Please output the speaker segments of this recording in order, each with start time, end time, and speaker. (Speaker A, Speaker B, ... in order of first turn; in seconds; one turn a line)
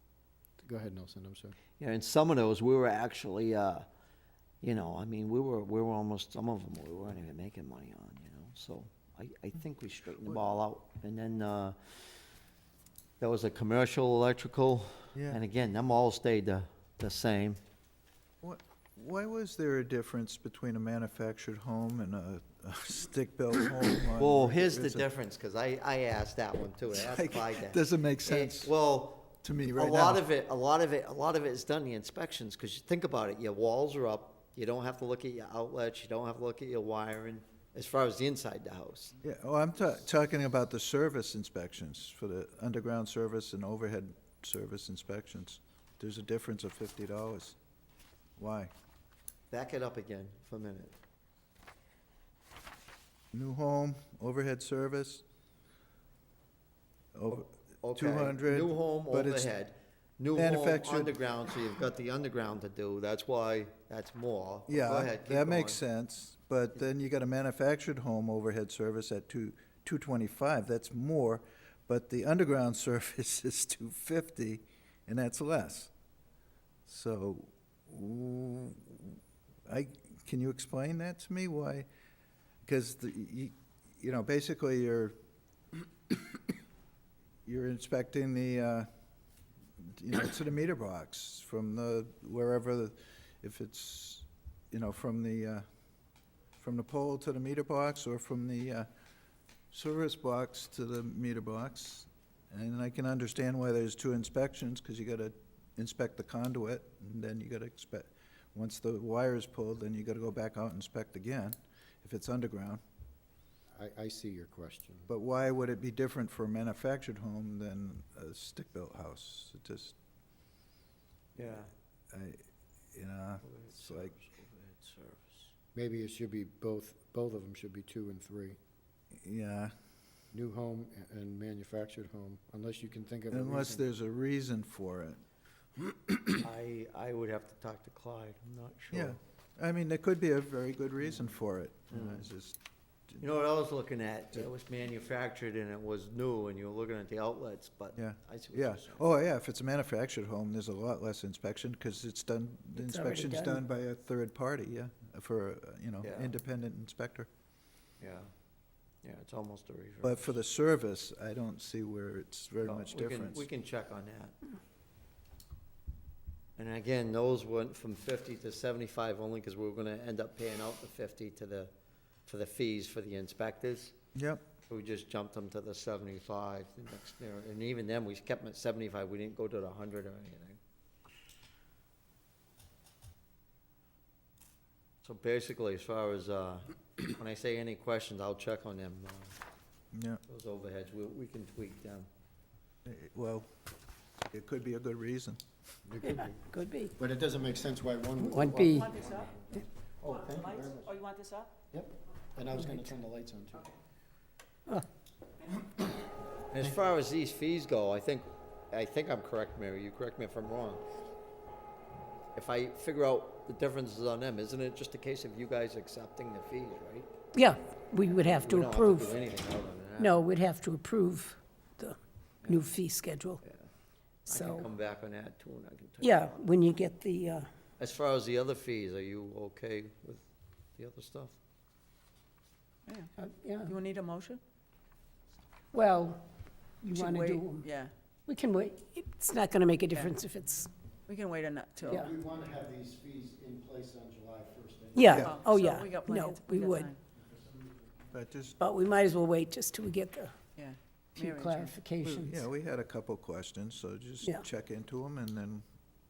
Speaker A: 0.6-1.6
Speaker B: 1.8-3.8
Speaker B: 4.6-11.8
Speaker B: 13.2-17.6
Speaker C: 15.1-15.4
Speaker C: 18.4-25.1
Speaker B: 24.2-39.1
Speaker C: 26.9-28.7
Speaker C: 29.4-30.2
Speaker C: 39.2-47.6
Speaker C: 48.4-48.7
Speaker B: 49.5-50.9
Speaker C: 53.3-55.2
Speaker C: 57.1-59.5
Speaker B: 57.3-65.8
Speaker C: 60.3-61.2
Speaker C: 64.7-75.9
Speaker C: 76.9-81.9
Speaker C: 82.6-85.1
Speaker C: 87.5-88.9
Speaker C: 89.8-95.6
Speaker C: 96.6-98.9
Speaker C: 99.7-112.8
Speaker A: 113.7-115.1
Speaker C: 115.1-120.0
Speaker B: 121.3-121.7
Speaker C: 122.1-122.4
Speaker C: 122.9-124.1
Speaker B: 123.4-125.5
Speaker A: 125.7-128.6
Speaker C: 129.2-129.7
Speaker A: 130.3-133.8
Speaker C: 133.3-135.2
Speaker B: 136.4-139.2
Speaker C: 138.9-142.6
Speaker B: 141.9-142.3
Speaker B: 143.2-149.0
Speaker C: 147.9-157.3
Speaker D: 152.8-153.6
Speaker B: 156.0-156.3
Speaker B: 158.0-158.3
Speaker B: 159.0-160.4
Speaker C: 160.0-163.4
Speaker B: 162.6-164.5
Speaker B: 166.6-171.7
Speaker B: 172.3-173.9
Speaker C: 174.1-174.4
Speaker B: 174.7-180.6
Speaker B: 185.0-189.3
Speaker C: 189.9-190.2
Speaker B: 190.3-192.1
Speaker C: 192.8-193.5
Speaker C: 194.3-195.4
Speaker A: 195.9-201.0
Speaker D: 196.0-196.9
Speaker D: 198.2-198.9
Speaker E: 200.4-201.5
Speaker A: 201.7-203.7
Speaker B: 206.5-210.8
Speaker B: 212.3-217.1
Speaker D: 217.3-219.1
Speaker B: 218.4-220.2
Speaker D: 220.0-223.4
Speaker B: 222.4-222.7
Speaker B: 223.4-223.7
Speaker B: 224.2-226.3
Speaker D: 224.3-224.7
Speaker D: 226.0-227.5
Speaker B: 227.8-230.2
Speaker B: 230.8-231.4
Speaker D: 233.2-233.7
Speaker E: 233.6-234.4
Speaker D: 235.7-236.2
Speaker D: 236.8-237.6
Speaker E: 236.9-237.9
Speaker D: 238.3-240.7
Speaker E: 241.1-242.0
Speaker A: 241.9-245.4
Speaker D: 244.9-246.9
Speaker E: 245.2-247.0
Speaker A: 247.3-247.6
Speaker C: 248.1-248.6
Speaker D: 248.6-250.4
Speaker E: 250.5-251.7
Speaker D: 251.2-252.4
Speaker C: 252.2-255.6